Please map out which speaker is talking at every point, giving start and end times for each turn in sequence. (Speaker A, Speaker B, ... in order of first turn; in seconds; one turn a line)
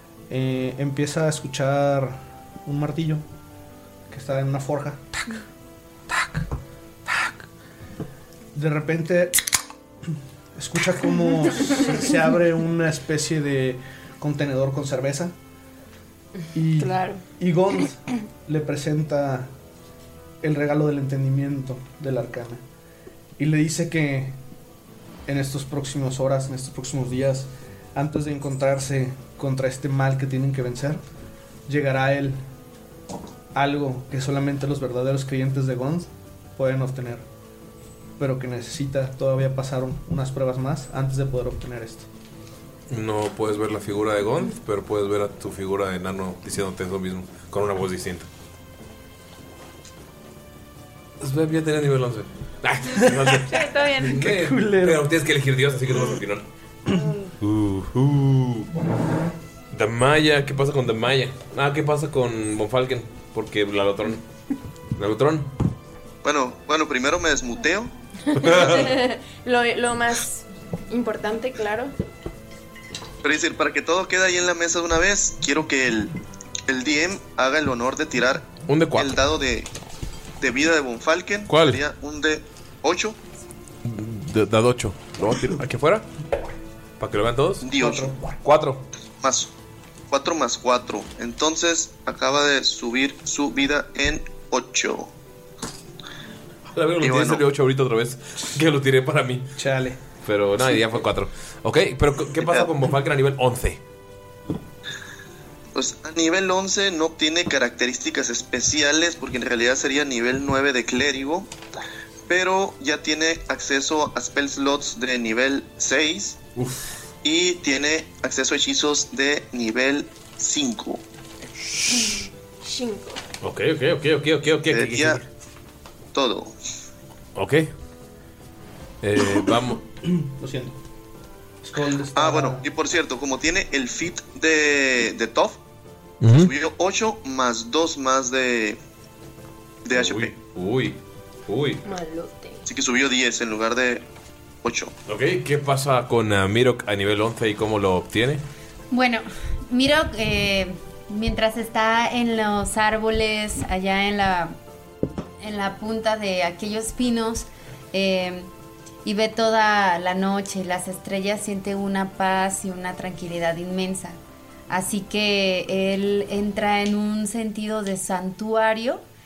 Speaker A: 0.3-3.2
Speaker A: 4.1-5.2
Speaker A: 8.5-9.4
Speaker A: 10.6-15.3
Speaker A: 16.5-19.5
Speaker B: 16.8-17.2
Speaker A: 20.4-22.6
Speaker A: 23.4-24.4
Speaker A: 25.3-31.0
Speaker A: 31.7-32.4
Speaker A: 33.5-37.2
Speaker A: 38.2-42.1
Speaker C: 42.9-48.3
Speaker C: 51.2-56.4
Speaker A: 53.0-55.1
Speaker B: 53.5-54.1
Speaker C: 57.4-58.7
Speaker C: 59.7-64.2
Speaker C: 65.0-65.5
Speaker D: 66.2-67.9
Speaker B: 68.3-71.9
Speaker C: 68.4-68.9
Speaker D: 73.2-76.1
Speaker D: 76.7-79.7
Speaker C: 78.7-79.1
Speaker D: 80.4-83.2
Speaker C: 81.5-81.8
Speaker C: 83.8-86.1
Speaker C: 87.0-87.7
Speaker D: 87.6-88.1
Speaker A: 87.8-88.2
Speaker C: 88.4-88.8
Speaker D: 89.2-89.5
Speaker D: 90.1-95.1
Speaker C: 96.7-99.5
Speaker D: 97.0-97.4
Speaker A: 99.5-100.0
Speaker C: 100.2-103.8
Speaker D: 105.7-111.5
Speaker D: 112.3-116.4
Speaker C: 116.5-117.0
Speaker D: 117.2-121.0
Speaker B: 121.9-123.2
Speaker C: 123.4-125.2
Speaker D: 124.7-125.2
Speaker D: 126.1-126.5
Speaker C: 127.3-127.7
Speaker C: 129.0-129.8
Speaker A: 130.0-130.7
Speaker A: 131.6-132.6
Speaker D: 132.2-135.6
Speaker C: 136.2-136.5
Speaker D: 136.3-138.8
Speaker D: 139.8-140.3
Speaker C: 139.9-141.8
Speaker B: 141.8-142.7
Speaker D: 142.7-144.0
Speaker D: 144.6-144.9
Speaker C: 145.1-148.4
Speaker E: 148.9-154.6
Speaker E: 155.4-158.5
Speaker E: 159.0-164.2
Speaker E: 164.7-169.0